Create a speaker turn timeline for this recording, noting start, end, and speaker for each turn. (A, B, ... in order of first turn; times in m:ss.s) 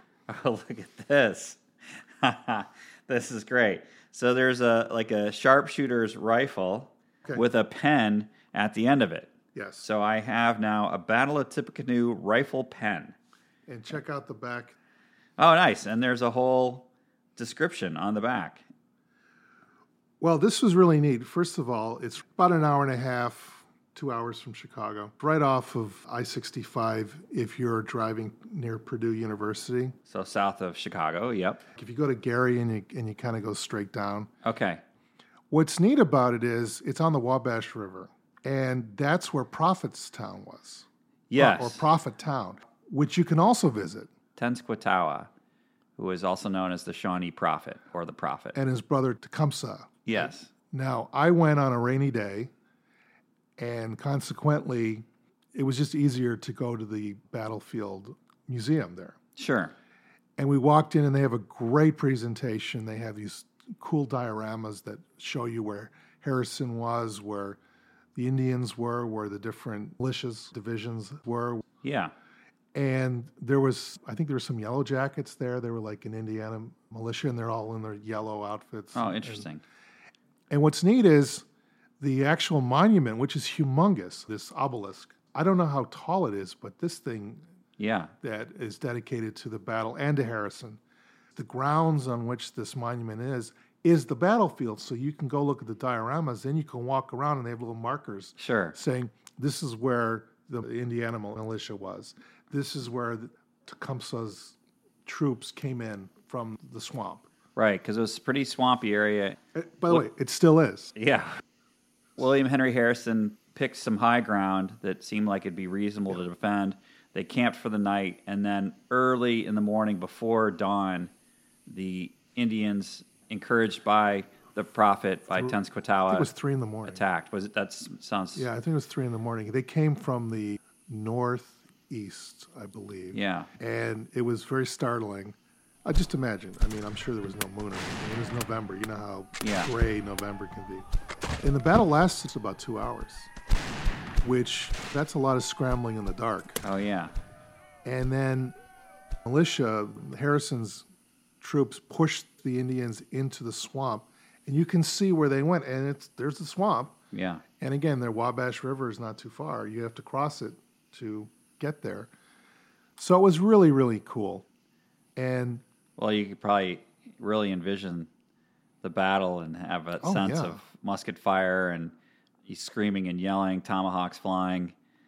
0:00.3-0:13.2 A
0:09.5-0:09.9 B
0:13.7-0:14.8 B
0:15.4-0:18.6 A
0:20.2-0:30.0 B
0:30.1-0:31.6 A
0:31.8-0:34.3 B
0:34.4-0:34.8 A
0:35.5-0:44.1 B
0:41.3-0:41.8 A
0:44.4-0:45.3 A
0:46.0-0:48.6 A
0:48.6-0:52.5 B
0:50.1-0:50.5 A
0:53.6-0:59.2 B
0:59.4-0:59.7 A
1:00.4-1:07.6 B
1:08.2-1:11.6 B
1:11.8-1:12.1 A
1:12.7-1:19.5 B
1:18.9-1:19.6 A
1:20.5-1:21.4 B
1:22.0-1:27.4 B
1:27.8-1:28.1 A
1:28.2-1:30.8 B
1:31.3-1:47.3 B
1:38.4-1:38.8 A
1:47.6-1:49.4 A
1:49.6-1:51.0 B
1:51.0-1:51.4 A
1:52.2-2:01.1 A
2:01.7-2:06.3 A
2:06.1-2:07.0 B
2:06.9-2:08.5 A
2:08.4-2:20.9 B
2:13.1-2:13.5 A
2:19.4-2:19.7 A
2:21.4-2:23.3 B
2:24.2-2:26.6 B
2:26.6-2:27.1 A
2:27.8-2:28.6 B
2:29.3-2:30.8 B
2:31.4-2:37.0 B
2:37.1-2:37.4 A
2:37.6-2:42.1 B
2:43.0-2:44.5 B
2:45.2-2:45.6 B
2:46.0-2:48.1 A
2:48.8-2:51.9 A
2:50.0-2:50.6 B
2:52.5-2:54.7 A